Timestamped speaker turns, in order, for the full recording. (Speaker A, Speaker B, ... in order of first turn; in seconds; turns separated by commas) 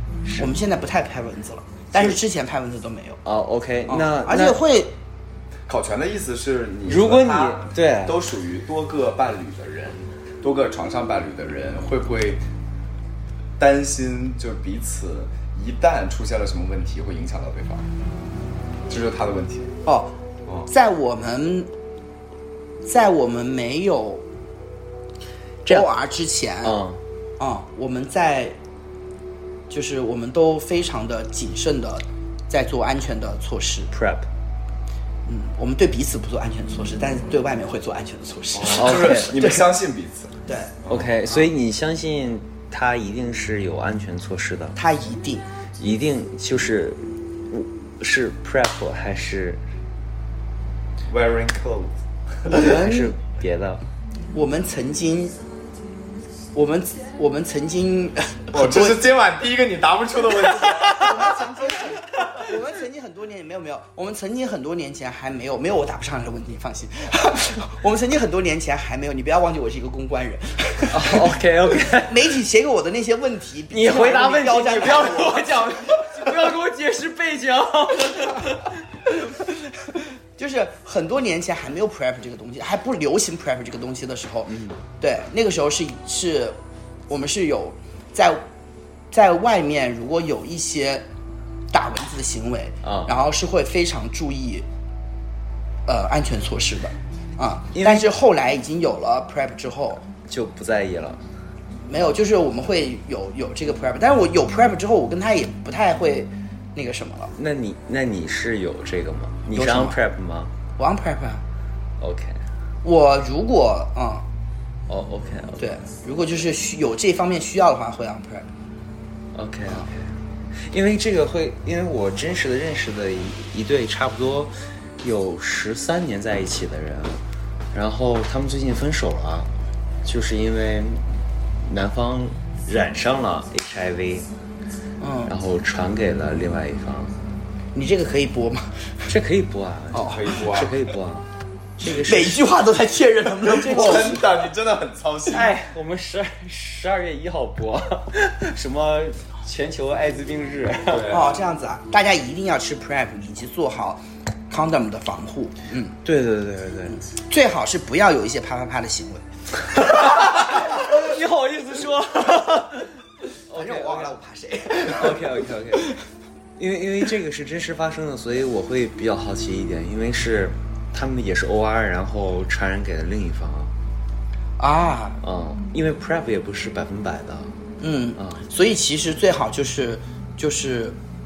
Speaker A: 0.2-0.5, Speaker B: 0.4-3.2, Speaker A: 3.2-4.6, Speaker B: 3.9-4.9, Speaker C: 5.7-12.4, Speaker A: 6.9-8.2, Speaker C: 13.6-17.9, Speaker C: 18.9-19.7, Speaker B: 19.9-20.1, Speaker B: 20.7-21.7, Speaker B: 22.8-24.2, Speaker B: 25.7-26.8, Speaker A: 26.6-27.0, Speaker B: 27.4-28.6, Speaker B: 29.7-33.9, Speaker A: 33.9-34.3, Speaker B: 35.3-39.6, Speaker A: 38.6-39.4, Speaker C: 38.7-40.4, Speaker B: 40.5-40.8, Speaker C: 40.9-41.1, Speaker A: 40.9-44.8, Speaker B: 44.8-45.5, Speaker A: 45.8-49.6, Speaker C: 51.1-52.0, Speaker B: 52.5-53.1, Speaker A: 52.5-53.8, Speaker B: 54.3-55.4, Speaker B: 56.5-59.0, Speaker C: 58.5-61.1, Speaker B: 60.5-71.2, Speaker A: 70.9-72.3, Speaker B: 71.9-76.0, Speaker A: 73.7-78.8, Speaker B: 80.4-86.6, Speaker A: 84.5-84.8, Speaker B: 87.1-88.4, Speaker B: 89.1-91.0, Speaker B: 91.7-94.7, Speaker A: 92.8-93.1, Speaker B: 95.9-100.0, Speaker A: 97.7-98.1, Speaker A: 100.3-101.2, Speaker B: 101.9-107.3, Speaker A: 107.4-110.5, Speaker B: 109.5-110.0, Speaker B: 110.8-111.4, Speaker A: 112.0-112.4, Speaker B: 112.8-114.3, Speaker A: 114.9-115.8, Speaker B: 115.6-118.5, Speaker A: 119.3-127.2, Speaker A: 127.7-129.5, Speaker A: 130.1-131.0, Speaker A: 131.6-134.3, Speaker B: 135.0-135.3, Speaker A: 135.3-137.2, Speaker B: 137.8-138.8, Speaker A: 139.1-141.3, Speaker B: 139.9-140.2, Speaker C: 140.0-140.8, Speaker A: 141.8-142.4, Speaker B: 141.9-144.3, Speaker C: 143.5-145.5, Speaker A: 145.3-151.2, Speaker C: 150.9-151.4, Speaker B: 151.1-156.0, Speaker A: 156.0-157.0, Speaker B: 156.9-159.2, Speaker A: 159.8-162.9, Speaker A: 163.5-164.2, Speaker B: 163.5-165.3, Speaker A: 164.8-165.9, Speaker A: 166.6-173.7, Speaker B: 174.6-175.2, Speaker A: 175.2-177.6, Speaker B: 177.8-181.0, Speaker A: 178.2-178.4